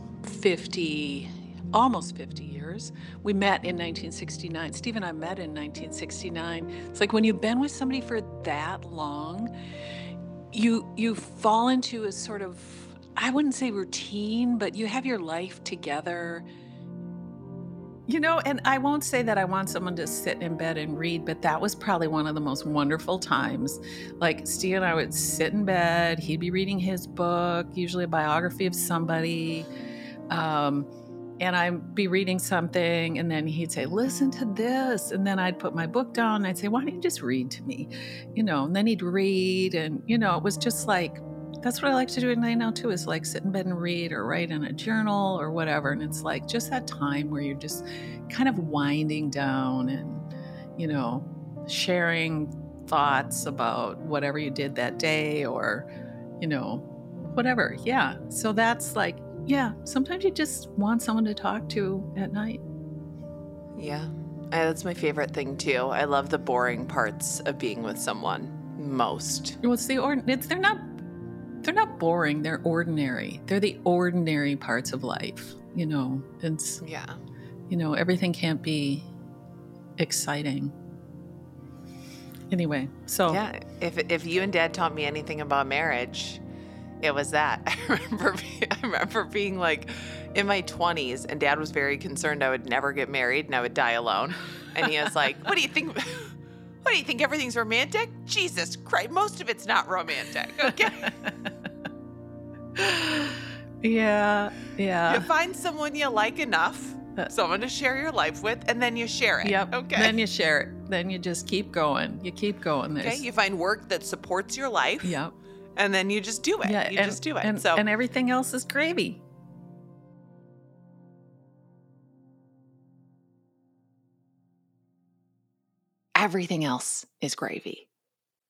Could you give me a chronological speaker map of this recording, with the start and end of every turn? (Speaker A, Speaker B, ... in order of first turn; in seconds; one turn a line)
Speaker A: 0.2-9.5
Speaker A: 10.5-16.5
Speaker A: 18.1-29.7
Speaker A: 30.3-55.9
Speaker A: 56.4-62.6
Speaker B: 63.8-69.6
Speaker A: 69.6-71.0
Speaker A: 71.6-76.8
Speaker B: 76.8-77.2
Speaker A: 77.7-79.1
Speaker A: 80.0-80.7
Speaker A: 82.5-83.4
Speaker B: 83.3-86.4
Speaker B: 87.0-101.1
Speaker A: 100.8-101.5
Speaker A: 102.8-105.3
Speaker B: 105.1-110.2
Speaker A: 109.4-113.2
Speaker B: 113.0-115.2
Speaker A: 115.0-115.3
Speaker B: 115.8-117.8
Speaker A: 116.6-119.2
Speaker B: 126.2-127.9